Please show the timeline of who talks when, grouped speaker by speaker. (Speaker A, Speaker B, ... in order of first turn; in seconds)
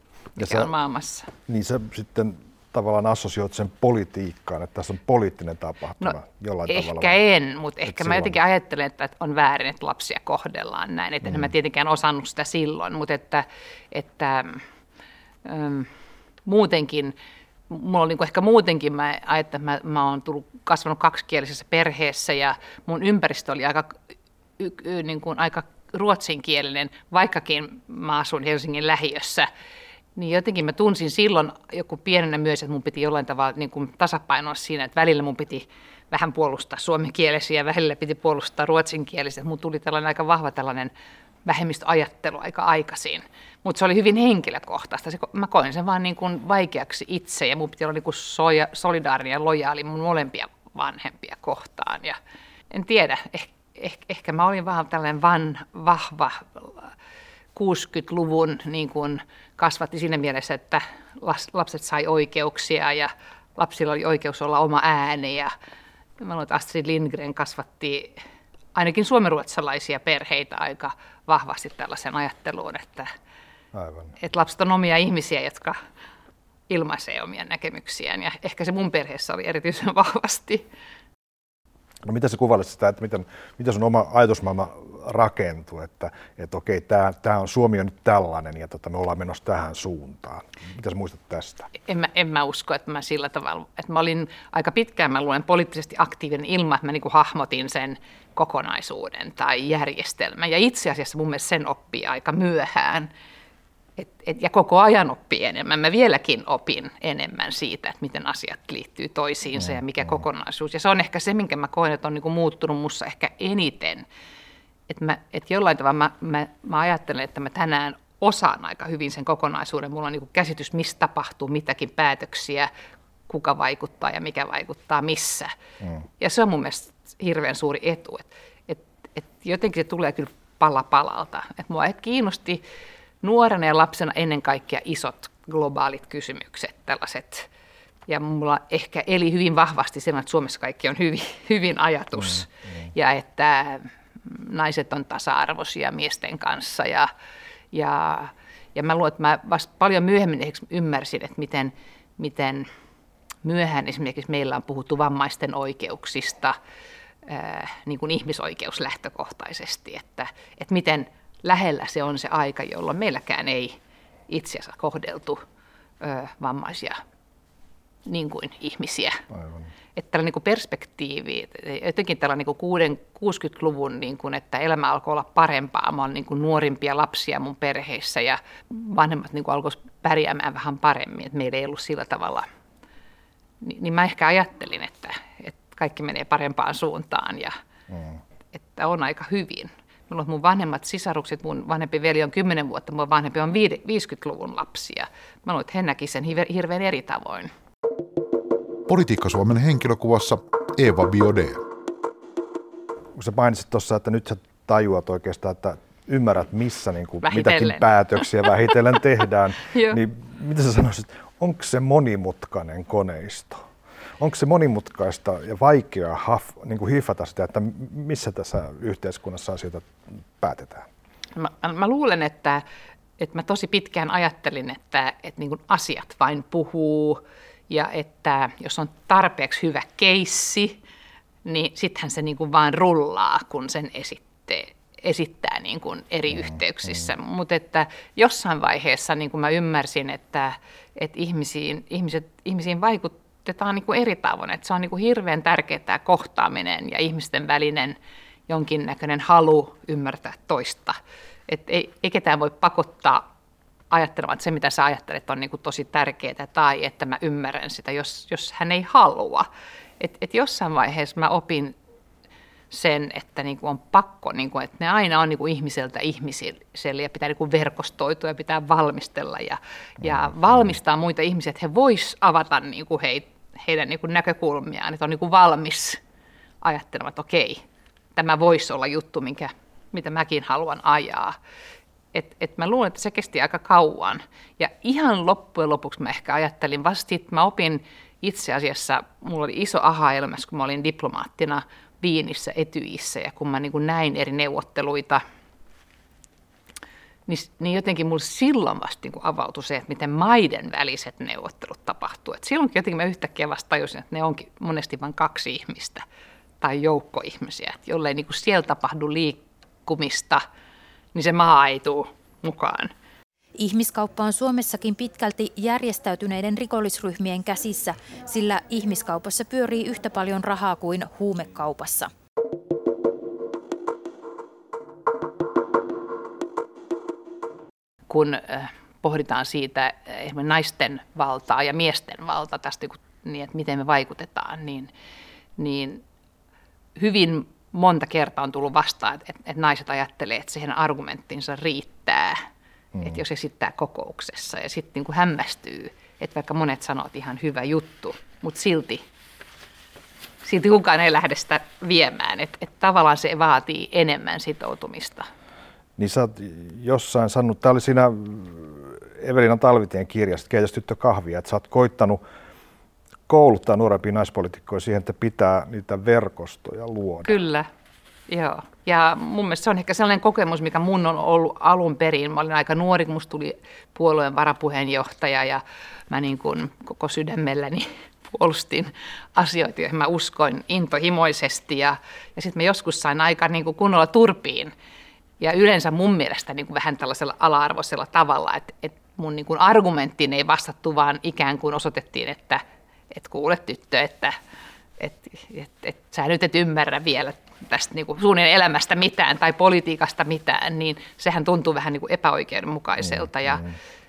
Speaker A: 0.3-0.7, 1.5-7.2, 7.8-8.4, 11.2-11.5, 73.7-74.1, 82.0-91.7, 109.6-110.2, 142.2-142.7, 169.3-169.7, 203.1-213.6, 214.2-220.8, 270.0-270.6, 356.0-362.2, 363.3-367.4, 403.0-403.7
Speaker B: 0.4-1.3, 6.7-14.6, 15.4-15.9, 16.4-17.1, 17.7-23.9, 24.6-29.5, 30.1-40.9, 41.4-52.2, 52.7-56.9, 57.5-65.5, 66.2-68.2, 68.7-73.1, 74.2-75.8, 76.7-80.6, 91.8-103.1, 104.0-114.0, 114.9-122.7, 123.3-125.5, 126.2-132.6, 133.2-137.5, 138.1-147.1, 147.7-152.7, 153.4-156.6, 157.2-163.8, 164.3-165.4, 166.0-167.0, 168.1-169.2, 169.9-182.4, 183.6-187.5, 188.5-197.5, 207.2-208.7, 209.7-210.0, 221.3-222.6, 223.2-230.8, 231.4-247.9, 248.5-253.2, 253.9-259.5, 260.0-261.7, 262.7-276.0, 276.6-277.6, 278.1-281.4, 282.1-295.2, 297.3-306.0, 306.6-310.4, 311.1-312.9, 328.1-334.9, 335.6-336.0, 336.9-342.4, 343.0-349.0, 350.4-355.3, 367.2-367.7, 368.3-384.7, 385.4-394.4, 395.0-403.6
Speaker C: 198.9-201.6
Speaker D: 313.6-322.1